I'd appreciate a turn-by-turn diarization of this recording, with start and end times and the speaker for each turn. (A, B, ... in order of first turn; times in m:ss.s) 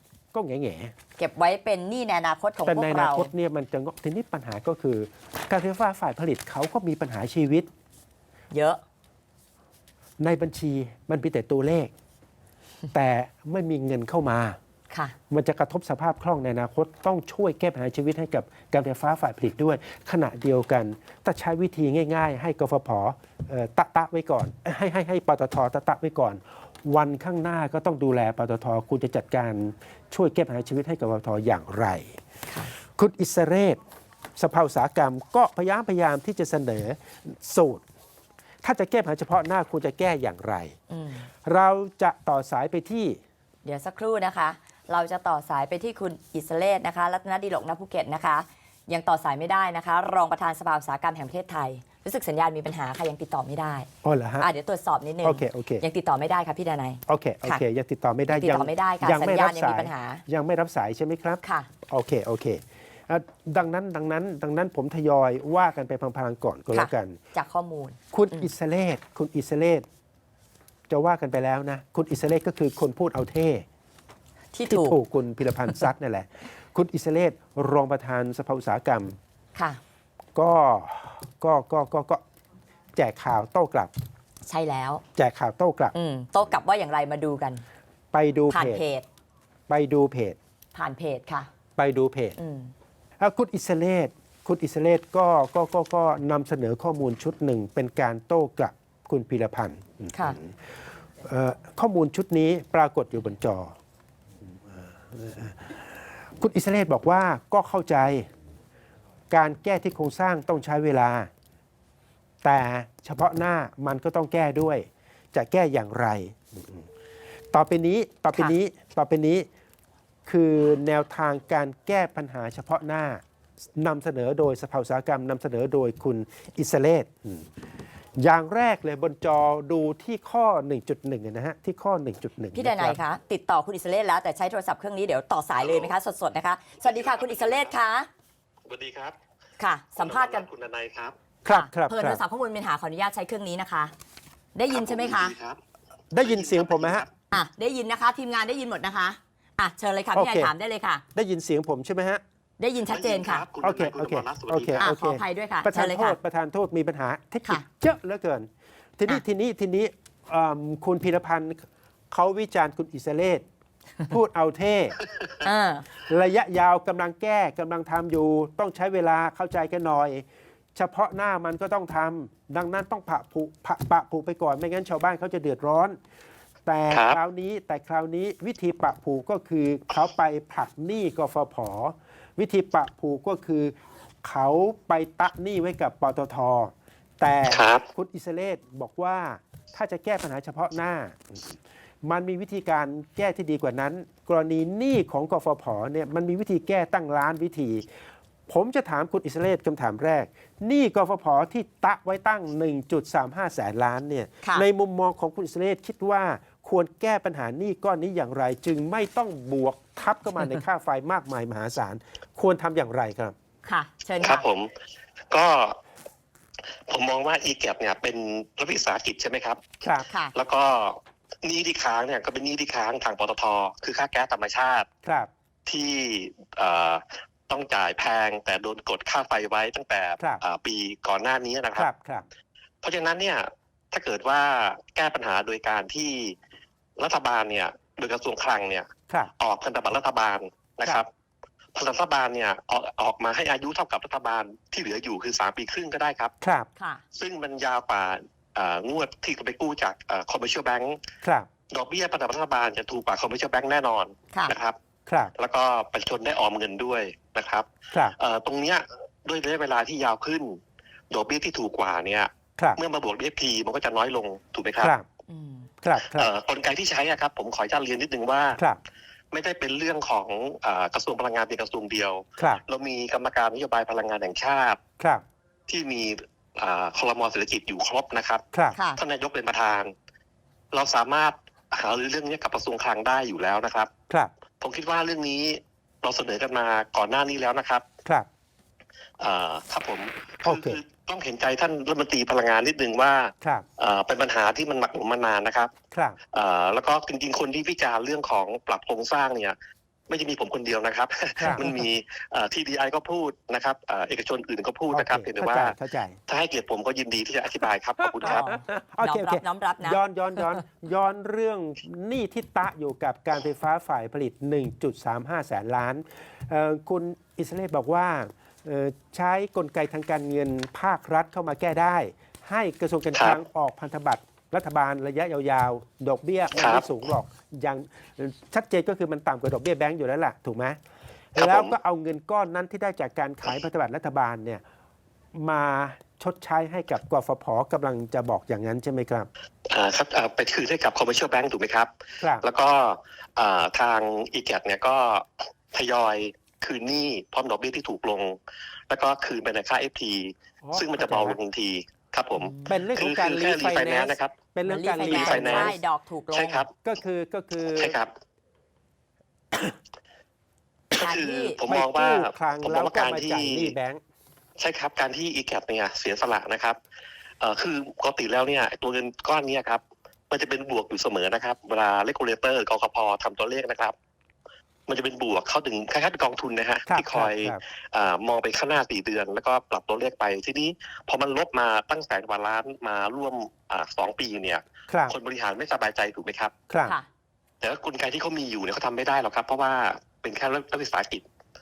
0:00.3-0:00.9 A
0:01.2-0:03.3 B
0:02.7-0:07.7 A
0:08.5-0:08.8 B
0:10.2-0:11.9 A
0:12.9-0:14.6 A
0:14.9-0:15.2 B
0:15.3-0:32.2 A
0:33.0-0:33.8 A
0:34.4-0:37.8 A
0:38.6-0:40.8 A
0:40.9-0:41.3 B
0:41.4-0:43.2 A
0:43.6-0:53.9 B
0:54.0-0:54.5 A
0:54.4-0:57.6 B
0:55.2-0:55.8 A
0:57.1-1:07.2 A
0:58.3-1:00.2 B
1:01.4-1:01.7 B
1:06.7-1:08.5 B
1:08.1-1:09.9 A
1:10.9-1:13.6 A
1:14.5-1:15.0 B
1:14.7-1:19.2 A
1:20.4-1:22.2 A
1:23.0-1:23.9 A
1:24.5-1:25.0 B
1:25.2-1:26.0 A
1:25.9-1:27.6 B
1:28.1-1:28.8 A
1:28.5-1:29.0 B
1:29.7-1:30.4 A
1:30.8-1:31.5 B
1:31.8-1:32.4 A
1:32.4-1:32.7 B
1:33.2-1:43.8 A
1:44.7-1:48.3 A
1:49.3-1:51.3 A
1:52.4-1:56.9 A
1:57.5-1:59.5 A
2:00.3-2:03.2 A
2:03.8-2:07.5 A
2:08.2-2:13.0 A
2:12.6-2:18.1 B
2:15.6-2:15.9 C
2:16.8-2:17.7 C
2:18.7-2:19.2 C
2:19.6-2:20.5 B
2:20.0-2:21.2 C
2:21.4-2:22.2 A
2:21.5-2:23.9 B
2:24.6-2:25.4 B
2:24.7-2:25.6 C
2:26.1-2:27.1 A
2:26.2-2:27.1 C
2:27.3-2:31.0 B
2:30.2-2:30.5 A
2:31.2-2:32.2 A
2:32.6-2:33.4 B
2:32.9-2:34.9 C
2:33.6-2:43.4 A
2:34.8-2:36.2 B
2:44.1-2:45.0 A
2:45.4-2:45.9 B
2:46.0-2:56.0 A
2:56.7-3:17.9 A
2:56.9-2:57.2 C
3:07.5-3:07.8 C
3:18.5-3:33.3 A
3:33.6-3:34.4 B
3:34.2-3:34.8 C
3:35.3-3:35.8 C
3:36.9-3:39.8 C
3:40.1-3:40.4 B
3:40.3-3:44.9 C
3:45.0-3:45.3 A
3:45.7-3:51.9 C
3:51.8-3:52.3 A
3:52.8-3:56.4 C
3:57.0-4:01.1 C
4:01.8-4:06.3 C
4:06.4-4:06.7 A
4:06.8-4:07.0 B
4:07.1-4:11.0 C
4:11.2-4:11.5 A
4:11.7-4:14.8 C
4:15.1-4:15.3 A
4:15.4-4:24.9 C
4:24.8-4:25.1 A
4:25.3-4:25.7 B
4:25.8-4:26.3 A
4:26.0-4:28.6 C
4:29.3-4:34.8 C
4:32.4-4:32.6 A
4:35.0-4:35.2 A
4:35.7-4:38.4 C
4:38.5-4:38.8 A
4:38.8-4:39.0 B
4:39.0-4:39.9 C
4:40.7-4:43.9 C
4:44.6-4:47.9 C
4:49.2-4:55.7 C
4:50.4-4:50.8 A
4:55.9-4:56.2 A
4:56.3-4:59.6 C
5:00.1-5:05.8 C
5:01.4-5:01.6 A
5:04.9-5:06.2 A
5:06.3-5:08.5 C
5:08.0-5:30.8 A
5:08.2-5:10.6 B
5:26.6-5:26.8 C
5:31.4-5:34.6 A
5:31.4-5:31.8 C
5:35.4-5:39.3 A
5:39.7-5:48.4 C
5:42.2-5:42.4 A
5:48.9-5:54.4 C
5:50.6-5:51.4 A
5:52.4-5:52.9 B
5:52.7-5:55.8 A
5:54.7-5:56.7 B
5:55.0-5:56.8 C
5:56.8-5:58.0 A
5:57.8-5:58.1 C
6:01.0-6:01.6 B
6:01.0-6:03.8 C
6:01.7-6:04.0 A
6:04.6-6:06.8 C
6:07.4-6:14.0 C
6:14.9-6:26.5 C
6:16.9-6:17.6 A
6:24.9-6:25.2 A
6:26.7-6:27.0 A
6:27.6-6:31.2 C